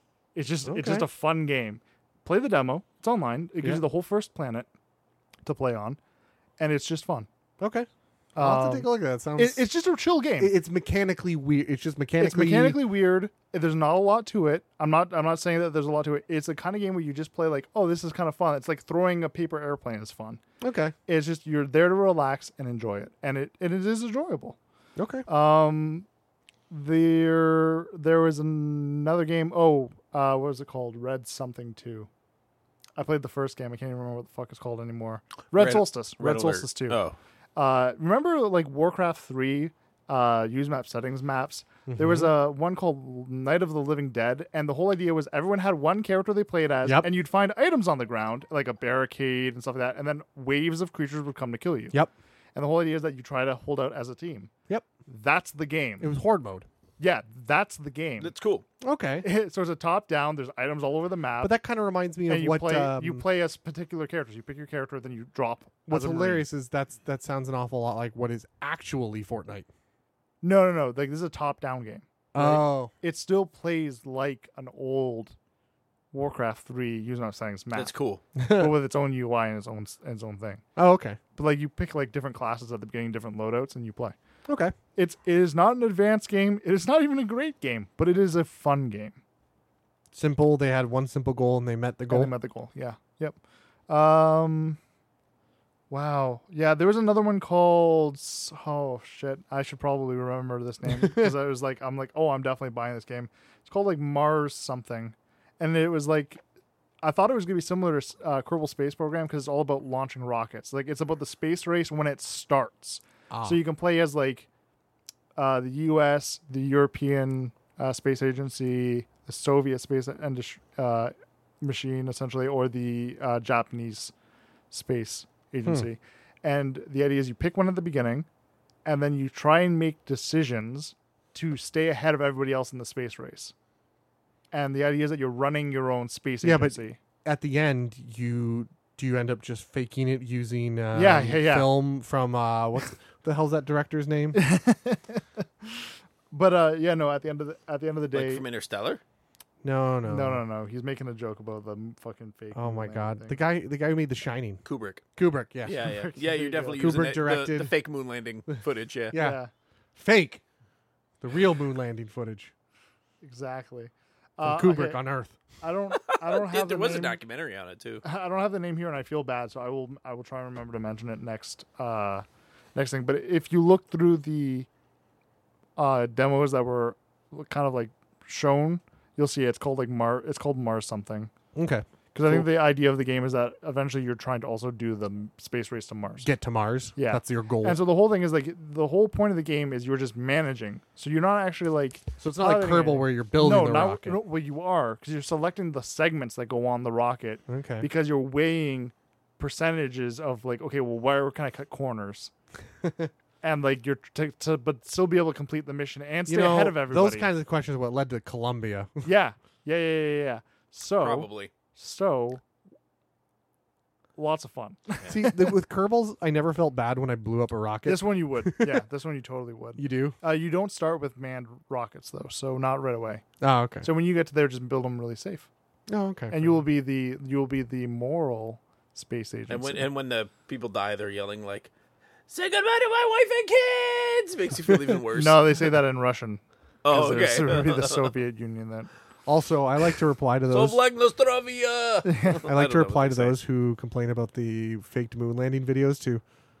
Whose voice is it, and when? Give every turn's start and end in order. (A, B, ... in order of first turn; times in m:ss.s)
0:00.3-0:04.7 A
0:00.6-0:01.1 B
0:05.4-0:06.0 A
0:06.6-0:07.3 A
0:07.6-0:09.7 B
0:08.3-0:10.5 A
0:10.4-0:12.8 B
0:12.2-0:20.4 A
0:20.6-0:20.9 B
0:21.1-0:24.6 A
0:25.0-0:25.3 B
0:25.3-0:26.0 A
0:26.7-0:32.1 A
0:33.0-0:37.0 A
0:35.5-0:37.2 C
0:37.6-0:51.9 A
0:41.9-0:42.3 B
0:46.8-0:47.1 B
0:52.5-0:54.5 A
0:55.1-0:56.1 A
0:56.0-0:56.7 B
0:57.0-0:58.3 A
0:58.2-0:58.6 C
0:58.8-0:59.3 B
0:59.2-1:01.5 A
1:01.4-1:03.2 B
1:02.3-1:06.4 A
1:05.9-1:09.7 B
1:10.4-1:15.3 A
1:12.3-1:12.9 B
1:16.1-1:20.6 A
1:17.7-1:18.2 C
1:18.4-1:18.8 B
1:20.8-1:21.2 B
1:21.4-1:24.1 A
1:24.5-1:24.7 B
1:25.0-1:29.2 A
1:30.1-1:32.3 B
1:32.1-1:33.4 A
1:33.9-1:34.8 A
1:35.9-1:46.4 A
1:41.0-1:41.3 B
1:47.0-1:54.5 A
1:53.3-1:53.6 B
1:55.4-2:04.1 A
2:04.7-2:08.3 A
2:08.8-2:13.5 A
2:14.5-2:17.0 A
2:16.4-2:24.4 B
2:20.9-2:21.7 A
2:24.3-2:28.4 A
2:28.1-2:29.0 C
2:29.6-2:30.4 B
2:30.0-2:33.4 A
2:32.5-2:34.6 B
2:34.6-2:35.0 C
2:35.2-2:35.9 B
2:35.6-2:39.2 C
2:35.8-2:36.8 A
2:36.8-2:37.8 B
2:39.1-2:39.4 B
2:39.1-2:39.5 A
2:39.9-2:40.4 B
2:41.2-2:42.5 B
2:43.2-2:45.0 A
2:44.4-2:45.4 B
2:45.6-2:47.2 A
2:46.1-2:48.0 C
2:48.0-2:52.2 A
2:52.7-2:54.7 A
2:55.8-3:01.3 A
3:01.5-3:02.5 B
3:02.1-3:06.3 A
3:06.2-3:07.8 B
3:06.9-3:22.3 A
3:12.2-3:14.2 B
3:17.5-3:17.9 B
3:22.8-3:23.1 B
3:23.4-3:27.3 A
3:26.3-3:29.0 B
3:29.0-3:32.4 A
3:31.0-3:31.5 C
3:34.2-3:35.5 A
3:35.1-3:38.8 B
3:37.8-3:43.2 A
3:39.8-3:40.2 B
3:43.4-3:43.9 B
3:43.8-3:45.5 A
3:45.9-3:46.6 B
3:46.3-3:49.9 A
3:49.5-3:51.7 C
3:52.3-3:55.4 C
3:55.1-3:58.9 A
3:56.8-3:58.1 C
3:59.2-4:00.8 B
4:00.5-4:03.4 C
4:02.0-4:02.4 A
4:02.4-4:06.2 B